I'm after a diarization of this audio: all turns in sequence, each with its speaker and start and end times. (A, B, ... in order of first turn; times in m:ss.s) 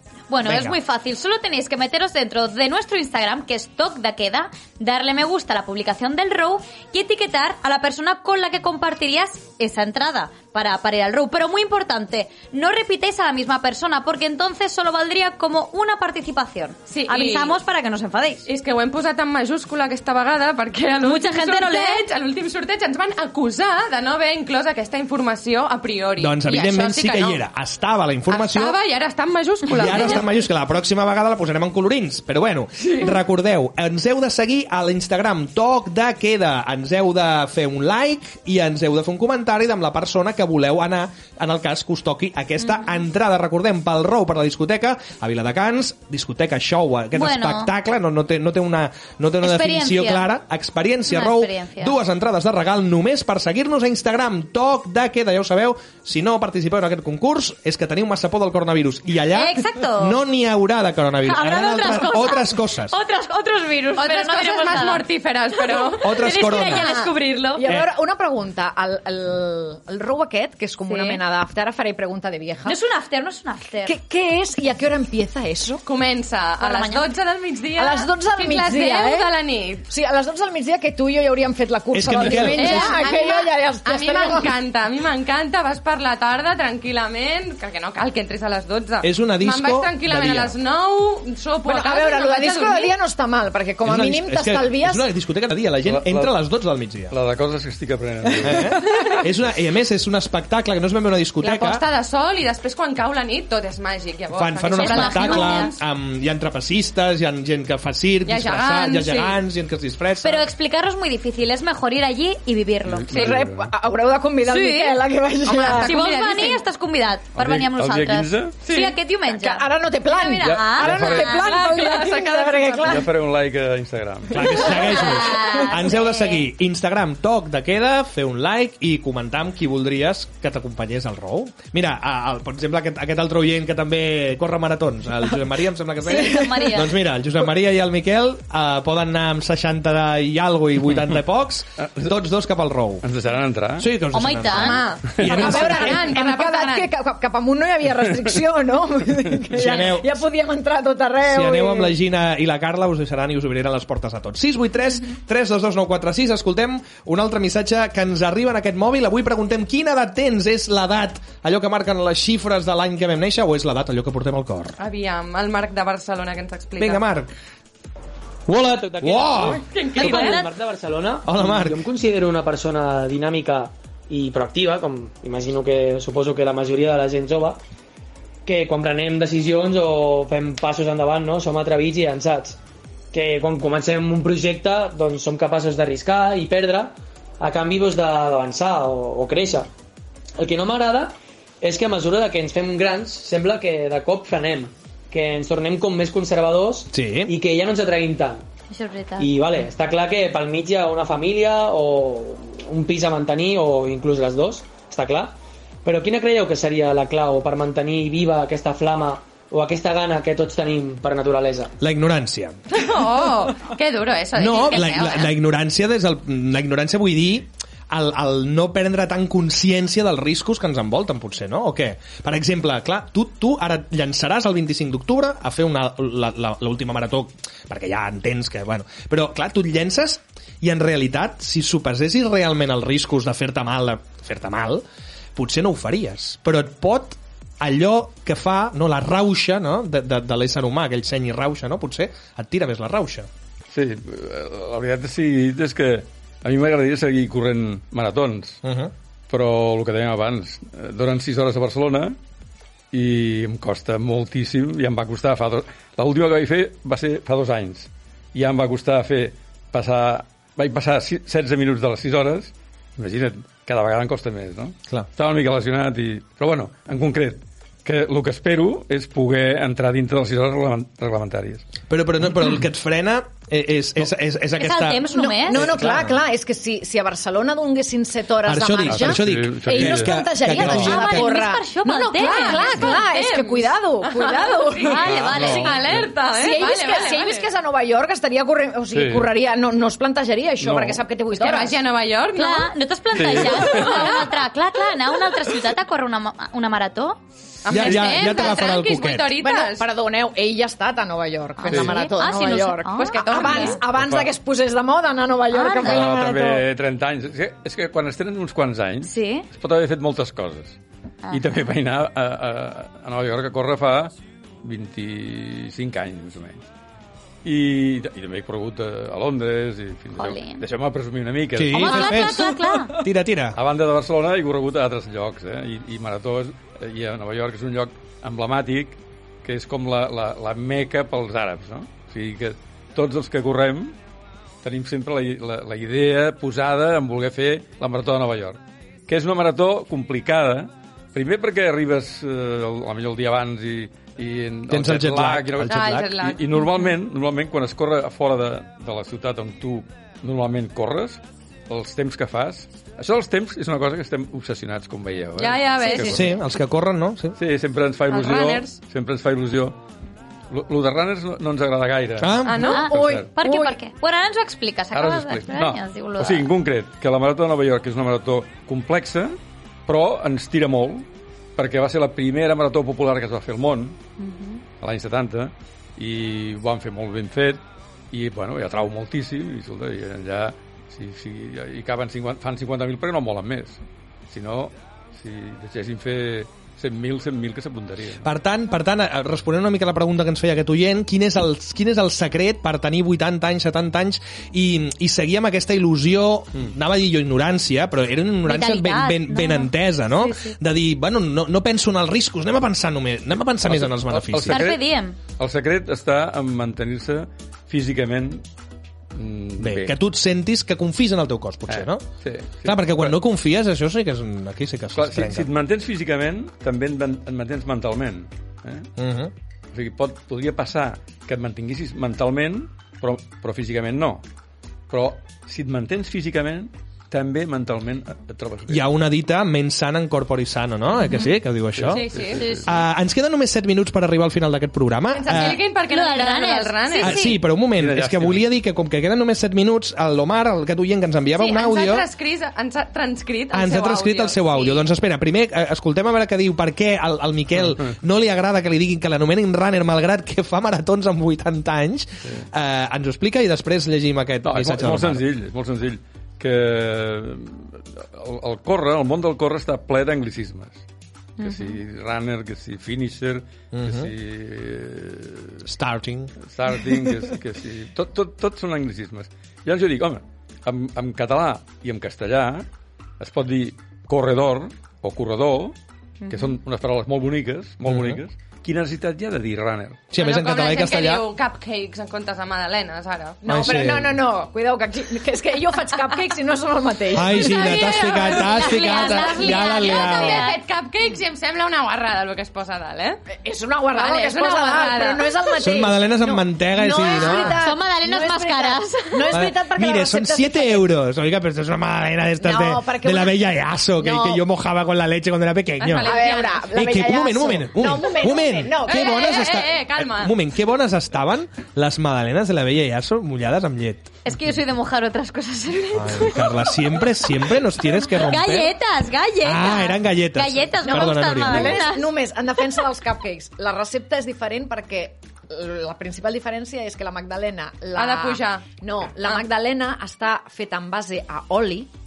0:00.3-0:18.5 A
0:00.4-0:00.8 B
0:16.9-0:17.6 C
0:18.5-0:27.4 C
0:21.0-0:22.0 A
0:26.2-0:28.8 B
0:28.3-0:30.3 C
0:29.7-1:03.0 B
0:32.8-0:33.2 C
0:47.1-0:47.7 A
0:49.4-0:50.3 A
0:51.1-0:52.0 A
0:59.3-1:00.2 A
1:01.2-1:07.6 A
1:04.0-1:06.3 C
1:06.0-1:07.0 B
1:06.6-1:12.8 D
1:10.9-1:11.2 A
1:12.7-1:14.0 A
1:13.8-1:15.8 D
1:15.9-1:19.9 C
1:16.6-1:17.1 A
1:17.8-1:19.3 D
1:19.9-1:24.6 D
1:21.9-1:22.9 B
1:22.5-1:33.0 C
1:29.0-1:30.6 B
1:31.6-1:35.1 D
1:33.8-1:37.1 B
1:35.8-1:36.3 E
1:37.1-1:38.7 E
1:38.4-1:41.8 B
1:41.4-1:45.8 C
1:44.3-1:50.4 B
1:44.7-1:45.7 A
1:48.3-1:49.4 C
1:50.2-1:53.2 A
1:52.9-1:53.7 E
1:53.1-1:56.0 D
1:54.4-1:55.0 A
1:55.5-1:56.6 C
1:55.7-2:01.5 A
1:57.4-1:58.6 E
1:58.6-1:59.0 C
1:59.3-2:03.1 D
2:00.4-2:01.5 E
2:01.2-2:03.0 C
2:02.8-2:04.7 E
2:04.3-2:23.0 B
2:04.7-2:06.4 A
2:16.0-2:17.0 A
2:21.8-2:22.1 E
2:23.0-2:23.9 E
2:23.8-2:26.1 B
2:24.1-2:24.8 A
2:24.5-2:26.9 C
2:25.2-2:32.0 D
2:29.5-2:30.1 B
2:31.3-2:44.8 B
2:44.8-2:47.0 C
2:46.8-2:47.3 B
2:48.5-2:57.6 F
2:49.0-2:49.6 B
2:49.7-2:50.4 C
2:50.0-2:50.5 A
2:51.2-2:51.8 B
2:58.4-3:02.6 F
3:03.1-3:09.7 F
3:10.4-3:18.4 F
3:16.9-3:17.3 B
3:18.7-3:19.3 A
3:19.2-3:31.8 F
3:31.8-3:32.6 B
3:32.7-3:35.3 C
3:34.4-3:54.8 B
3:55.4-4:03.3 B
4:03.7-4:08.6 E
4:08.6-4:08.9 B
4:09.3-4:12.2 E
4:12.9-4:31.7 E
4:31.9-4:36.2 B
4:34.6-4:35.6 A
4:35.2-4:45.6 D
4:38.4-4:41.4 B
4:38.9-4:40.9 E
4:40.6-4:43.0 A
4:42.3-4:47.5 C
4:44.8-4:45.9 A
4:45.0-4:46.1 E
4:46.3-4:51.8 D
4:48.9-4:49.3 E
4:50.6-4:51.0 E
4:51.4-4:52.7 C
4:52.4-4:57.2 A
4:53.1-4:54.1 E
4:53.7-4:54.3 C
4:57.6-4:59.8 C
4:57.7-4:59.4 B
4:57.9-4:58.2 E
4:59.4-5:06.6 D
5:01.6-5:03.8 A
5:01.7-5:02.0 E
5:03.1-5:03.8 C
5:03.8-5:04.3 E
5:05.5-5:06.0 A
5:05.8-5:10.8 E
5:09.0-5:09.5 A
5:11.2-5:11.6 A
5:11.3-5:16.7 E
5:17.4-5:22.3 E
5:20.2-5:20.6 A
5:21.6-5:23.6 B
5:21.7-5:23.0 A
5:23.6-5:34.0 E
5:34.6-5:56.2 E
5:44.7-5:46.1 B
5:45.6-5:46.4 C
5:55.4-5:56.4 C
5:55.8-5:56.1 A
5:56.1-5:57.4 B
5:57.4-5:59.8 E
5:58.1-5:58.8 C
6:00.5-6:02.4 E
6:02.2-6:02.8 B
6:02.4-6:02.8 C
6:02.6-6:03.8 D
6:02.6-6:06.5 A
6:02.9-6:03.3 E
6:04.9-6:14.0 E
6:14.2-6:14.6 A
6:14.8-6:17.6 E
6:18.1-6:28.3 E
6:28.2-6:44.7 B
6:38.4-6:40.6 A
6:43.6-6:48.4 E
6:44.5-6:45.2 A
6:49.2-6:50.0 E
6:49.6-6:52.0 B
6:51.7-6:53.2 E
6:52.6-6:55.5 B
6:55.0-6:58.9 E
6:59.0-6:59.3 B
6:59.7-7:04.2 E
7:04.9-7:08.8 E
7:08.7-7:12.1 B
7:11.8-7:12.8 E
7:11.9-7:12.4 C
7:12.4-7:12.6 A
7:12.6-7:15.7 B
7:15.1-7:17.4 C
7:15.9-7:17.4 A
7:17.0-7:22.1 B
7:17.7-7:18.5 E
7:21.3-7:24.8 C
7:23.5-7:35.2 B
7:27.6-7:27.9 E
7:34.4-7:40.8 E
7:41.4-7:41.8 A
7:41.4-7:45.6 E
7:43.7-7:44.1 B
7:45.6-7:46.3 B
7:46.5-7:52.7 E
7:53.2-7:55.8 E
7:56.2-7:56.5 A
7:56.3-8:00.0 E
7:57.9-7:58.2 B
8:00.1-8:01.2 B
8:00.2-8:03.7 C
8:03.4-8:08.1 D
8:03.5-8:04.2 B
8:07.1-8:10.5 B
8:07.3-8:13.2 C
8:07.6-8:10.6 A
8:13.3-8:20.9 D
8:13.9-8:15.3 C
8:15.6-8:17.6 B
8:17.2-8:19.5 A
8:19.3-8:34.1 B
8:22.4-8:24.4 D
8:25.8-8:27.0 C
8:26.0-8:29.4 D
8:28.8-8:30.3 C
8:34.2-8:36.7 A
8:35.9-8:38.7 B
8:38.1-8:42.1 A
8:39.4-8:41.9 B
8:40.8-8:51.9 D
8:48.0-8:48.7 C